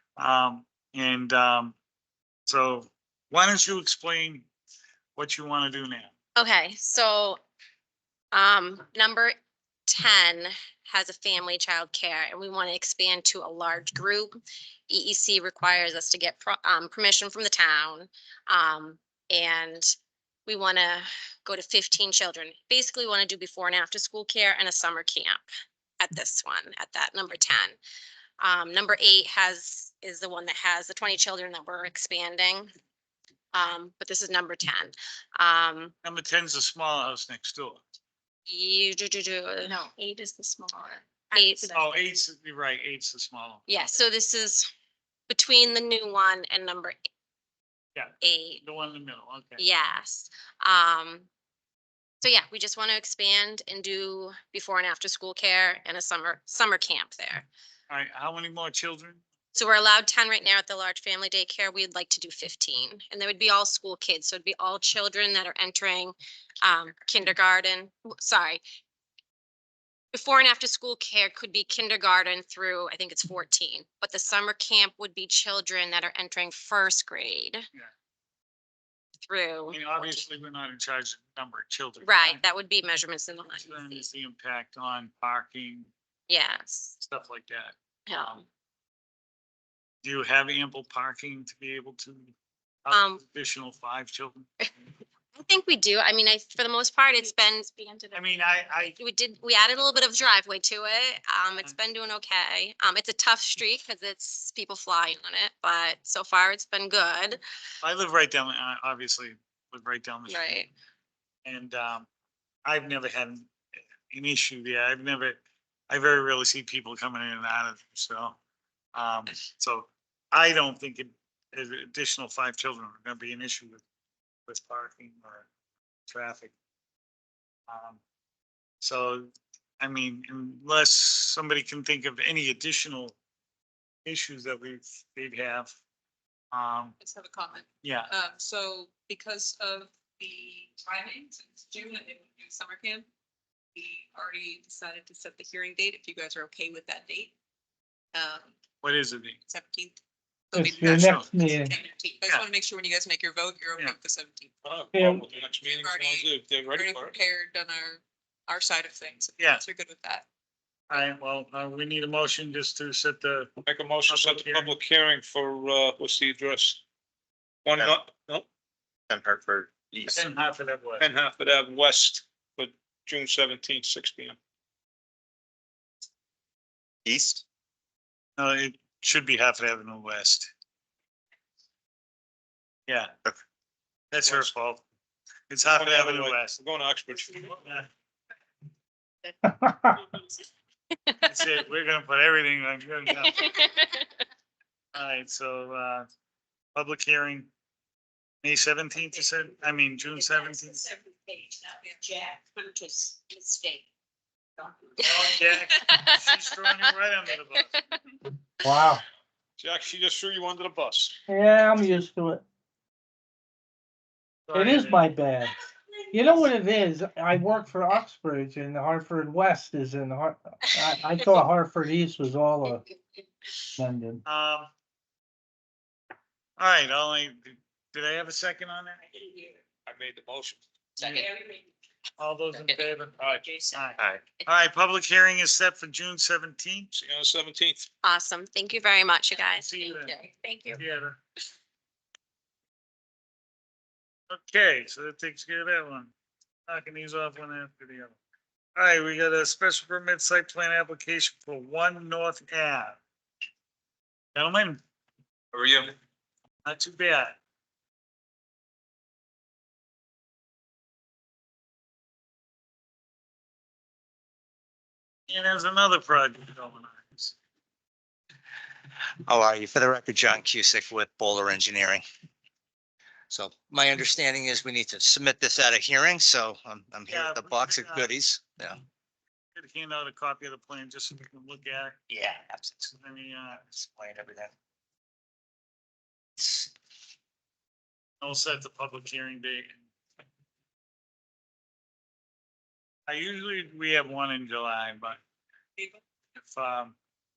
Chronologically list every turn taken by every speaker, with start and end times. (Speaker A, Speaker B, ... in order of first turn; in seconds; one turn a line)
Speaker A: 0.2-1.8
Speaker A: 2.5-4.5
Speaker A: 5.2-6.1
Speaker B: 6.4-7.4
Speaker B: 8.3-9.3
Speaker B: 9.9-19.9
Speaker B: 20.5-25.4
Speaker B: 26.0-27.8
Speaker B: 28.4-32.7
Speaker B: 33.5-35.9
Speaker A: 36.0-37.8
Speaker B: 38.5-39.8
Speaker C: 39.6-41.8
Speaker B: 41.3-41.7
Speaker A: 41.7-43.7
Speaker B: 43.7-44.7
Speaker B: 45.3-47.0
Speaker A: 48.0-49.6
Speaker B: 48.2-48.6
Speaker B: 49.6-51.3
Speaker B: 52.2-57.5
Speaker A: 57.9-59.2
Speaker B: 59.5-68.6
Speaker B: 70.1-77.6
Speaker B: 79.3-80.2
Speaker A: 79.7-82.4
Speaker B: 82.0-84.1
Speaker A: 83.6-85.9
Speaker B: 86.3-87.0
Speaker A: 87.0-88.4
Speaker B: 88.1-88.4
Speaker A: 90.0-92.3
Speaker A: 92.8-94.5
Speaker B: 92.9-93.2
Speaker B: 95.4-97.8
Speaker C: 97.8-98.5
Speaker A: 98.1-99.0
Speaker B: 99.0-107.4
Speaker A: 107.8-110.6
Speaker B: 110.3-110.7
Speaker A: 111.5-112.1
Speaker A: 112.7-113.5
Speaker A: 114.1-118.4
Speaker A: 118.9-123.8
Speaker A: 124.5-125.5
Speaker A: 126.1-126.5
Speaker A: 127.7-128.0
Speaker A: 128.8-133.2
Speaker A: 134.1-135.7
Speaker A: 136.5-137.0
Speaker D: 137.0-143.1
Speaker A: 137.8-138.1
Speaker D: 143.8-147.3
Speaker D: 148.1-148.5
Speaker A: 148.8-149.4
Speaker D: 149.5-150.0
Speaker D: 150.5-154.5
Speaker E: 150.5-151.7
Speaker A: 150.6-151.3
Speaker F: 154.6-157.2
Speaker E: 154.9-155.3
Speaker D: 155.7-160.2
Speaker A: 159.4-159.6
Speaker A: 160.9-163.5
Speaker F: 163.6-166.8
Speaker A: 164.1-164.8
Speaker F: 167.7-168.5
Speaker G: 169.1-170.2
Speaker A: 170.1-171.1
Speaker F: 171.0-174.4
Speaker G: 177.1-177.4
Speaker A: 178.4-180.5
Speaker A: 182.9-183.1
Speaker A: 184.1-184.8
Speaker F: 184.2-184.5
Speaker A: 185.5-186.6
Speaker F: 185.8-187.5
Speaker A: 187.5-187.9
Speaker E: 189.5-189.9
Speaker A: 191.2-193.5
Speaker B: 193.4-194.0
Speaker A: 194.9-196.1
Speaker A: 196.8-197.5
Speaker A: 198.4-200.9
Speaker B: 205.0-206.3
Speaker A: 205.0-207.8
Speaker E: 208.6-209.0
Speaker F: 209.6-211.2
Speaker E: 211.3-212.4
Speaker A: 214.5-215.1
Speaker E: 214.5-215.6
Speaker E: 216.1-222.8
Speaker E: 223.8-224.2
Speaker A: 224.2-224.7
Speaker A: 226.6-229.0
Speaker F: 229.9-231.3
Speaker A: 232.2-236.9
Speaker F: 236.9-237.9
Speaker B: 238.0-240.8
Speaker A: 239.5-240.2
Speaker A: 240.8-241.2
Speaker A: 244.3-246.1
Speaker A: 246.7-248.2
Speaker A: 248.8-253.0
Speaker A: 254.3-254.8
Speaker F: 255.5-255.9
Speaker A: 256.6-257.4
Speaker A: 265.3-267.4
Speaker G: 269.3-272.0
Speaker G: 273.3-278.8
Speaker A: 277.1-278.1
Speaker A: 279.6-282.0
Speaker G: 282.1-282.9
Speaker A: 282.9-283.8
Speaker G: 283.8-284.5
Speaker G: 286.4-286.7
Speaker A: 288.2-289.9
Speaker A: 293.1-295.2
Speaker A: 296.4-297.0